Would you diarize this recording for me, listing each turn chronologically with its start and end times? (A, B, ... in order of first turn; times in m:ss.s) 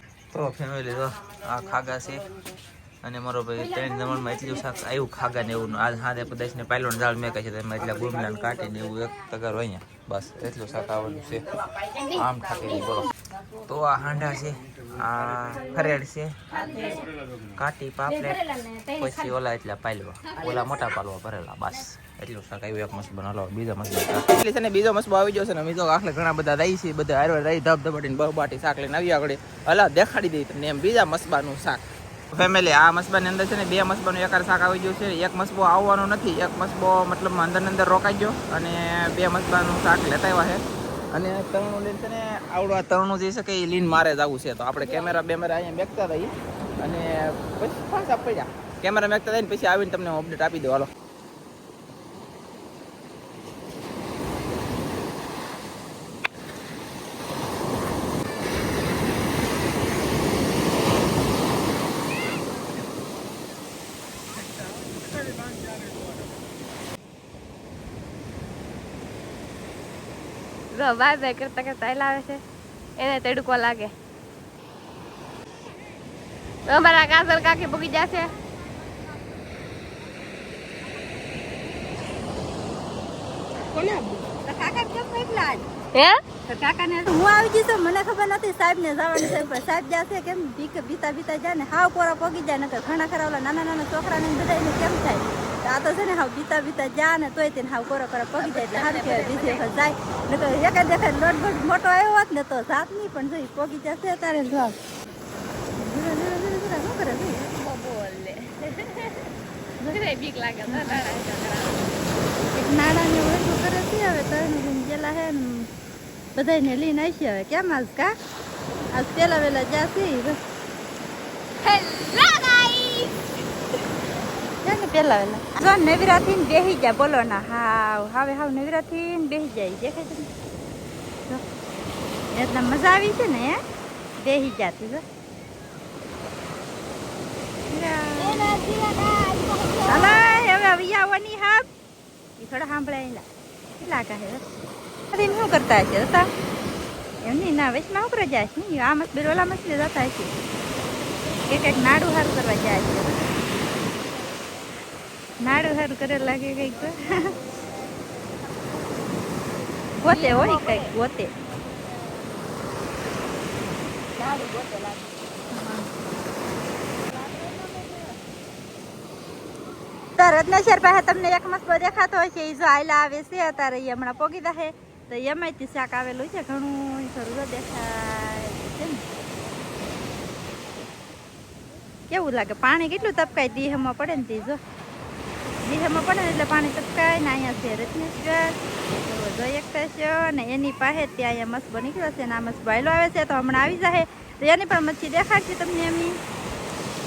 0:00.3-0:02.2 A
0:03.0-0:11.4 A
0:12.0-0:13.1 A
0:13.6-0:16.9 A
0:17.6-0:18.4 A
0:19.0-0:40.6 A
0:41.1-0:50.9 A
1:10.7-1:12.4 B
1:13.0-1:13.9 B
1:16.7-1:18.3 B
1:23.7-1:24.2 B
1:24.4-1:25.6 C
1:25.9-1:26.2 B
1:26.4-1:44.8 C
1:38.4-1:39.6 B
1:45.8-1:47.5 C
1:47.5-1:49.3 B
1:49.8-1:51.9 B
1:50.7-1:51.0 C
1:52.5-1:55.7 C
1:56.3-1:58.1 C
1:58.9-2:00.4 C
2:01.6-2:03.2 B
2:04.6-2:10.3 C
2:12.3-2:13.6 C
2:14.2-2:15.0 C
2:17.7-2:18.6 C
2:18.2-2:20.4 B
2:19.9-2:21.7 C
2:22.4-2:23.2 C
2:23.8-2:24.4 C
2:25.1-2:26.3 C
2:27.2-2:30.3 C
2:31.5-2:33.3 C
2:35.4-2:37.3 C
2:40.0-2:41.3 C
2:40.1-2:40.9 B
2:44.2-2:45.1 B
2:45.5-2:45.8 C
2:47.1-2:48.2 B
2:50.2-2:59.0 C
3:02.1-3:04.6 C
3:05.6-3:16.2 C